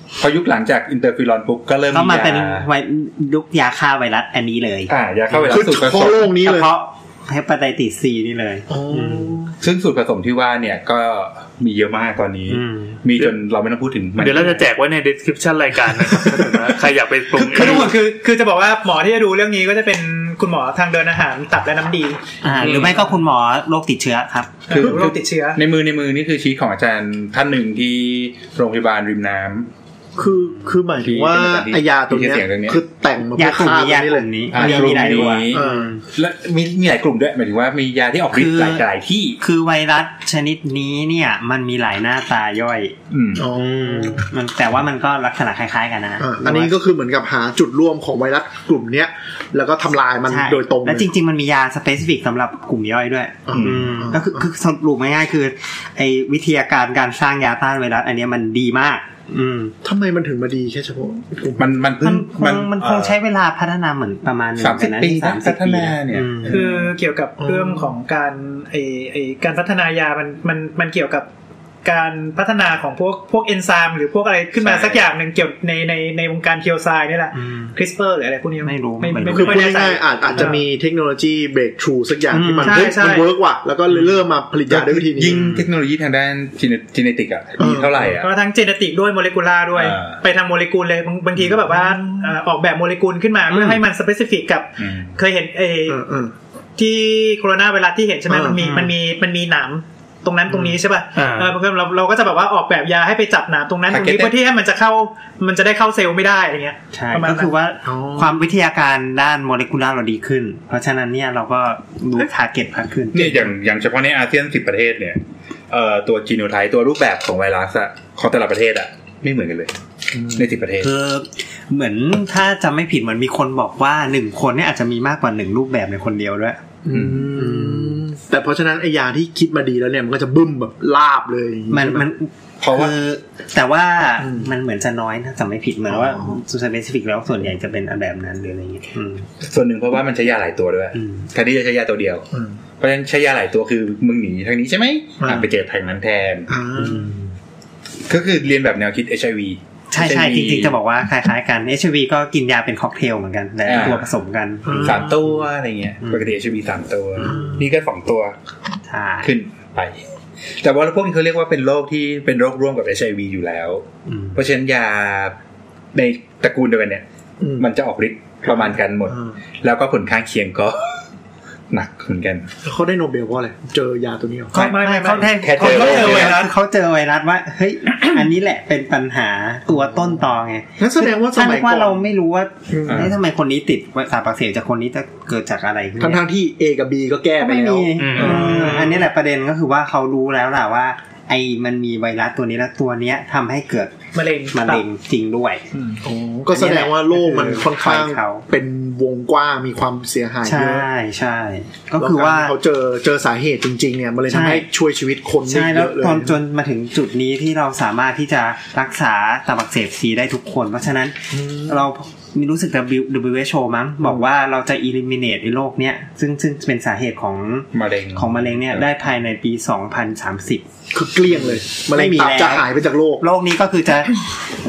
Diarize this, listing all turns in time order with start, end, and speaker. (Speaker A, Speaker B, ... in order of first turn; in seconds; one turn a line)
Speaker A: 0.2-2.7
Speaker B: 1.9-9.4
Speaker A: 4.9-6.3
Speaker C: 5.5-6.7
Speaker C: 8.7-9.6
Speaker A: 9.6-14.6
Speaker B: 12.5-13.0
Speaker D: 14.2-17.9
Speaker E: 17.5-22.2
Speaker B: 22.4-24.8
Speaker D: 22.6-22.9
Speaker E: 24.7-25.6
Speaker A: 24.7-29.7
Speaker C: 30.2-35.9
Speaker A: 31.0-32.8
Speaker B: 33.4-36.0
Speaker A: 34.5-39.4
Speaker B: 38.3-38.9
Speaker B: 39.4-46.8
Speaker A: 43.1-43.5
Speaker C: 43.4-44.3
Speaker C: 46.2-51.1
Speaker B: 50.3-59.8
Speaker C: 53.5-54.5
Speaker A: 53.5-53.9
Speaker C: 59.8-61.8
Speaker A: 61.6-63.2
Speaker B: 62.0-66.6
Speaker A: 64.6-66.7
Speaker E: 66.5-71.3
Speaker C: 67.4-67.9
Speaker E: 71.8-80.6
Speaker A: 74.6-75.1
Speaker B: 77.3-77.7
Speaker B: 78.6-80.5
Speaker C: 79.3-85.6
Speaker B: 82.3-83.0
Speaker E: 82.6-83.3
Speaker A: 84.7-88.3
Speaker C: 87.6-88.1
Speaker E: 88.2-96.0
Speaker A: 89.8-90.2
Speaker C: 91.7-92.3
Speaker B: 93.5-93.8
Speaker A: 94.8-95.2
Speaker C: 95.9-96.3
Speaker E: 96.8-107.5
Speaker C: 98.3-98.6
Speaker B: 98.6-98.9
Speaker D: 101.2-101.6
Speaker A: 103.9-104.3
Speaker B: 106.9-113.5
Speaker C: 107.8-108.4
Speaker A: 113.1-115.2
Speaker A: 115.7-119.7
Speaker C: 120.1-120.5
Speaker A: 120.3-120.9
Speaker B: 120.8-126.6
Speaker C: 126.8-132.1
Speaker A: 126.9-127.3
Speaker B: 127.3-128.0
Speaker B: 131.7-139.3
Speaker A: 132.6-132.9
Speaker C: 134.2-134.5
Speaker C: 135.9-136.4
Speaker A: 139.4-142.3
Speaker B: 140.9-141.3
Speaker C: 142.3-142.6
Speaker A: 142.8-146.5
Speaker C: 145.2-145.5
Speaker C: 146.5-147.2
Speaker B: 146.8-147.2
Speaker A: 148.1-150.8
Speaker B: 149.9-155.2
Speaker A: 153.6-154.1
Speaker C: 154.7-155.1
Speaker A: 154.7-158.3
Speaker B: 156.0-156.3
Speaker B: 157.2-157.5
Speaker C: 157.2-157.6
Speaker B: 158.9-159.3
Speaker A: 159.2-160.0
Speaker A: 160.6-165.3
Speaker B: 164.1-164.4
Speaker A: 165.9-167.0
Speaker C: 167.4-167.7
Speaker A: 167.6-171.0
Speaker C: 168.5-169.4
Speaker A: 171.7-172.5
Speaker C: 172.6-174.6
Speaker E: 174.5-176.5
Speaker B: 174.5-186.2
Speaker A: 175.3-176.4
Speaker C: 180.8-182.0
Speaker C: 182.7-183.1
Speaker C: 186.0-189.0
Speaker B: 187.4-193.9
Speaker D: 188.0-189.0
Speaker E: 194.1-194.8
Speaker B: 194.5-195.6
Speaker C: 196.0-200.8
Speaker B: 196.5-198.4
Speaker B: 200.4-202.6
Speaker C: 202.0-206.4
Speaker B: 204.3-204.7
Speaker B: 205.5-220.7
Speaker C: 211.3-211.9
Speaker A: 217.7-218.9
Speaker C: 220.9-223.2
Speaker B: 221.3-224.3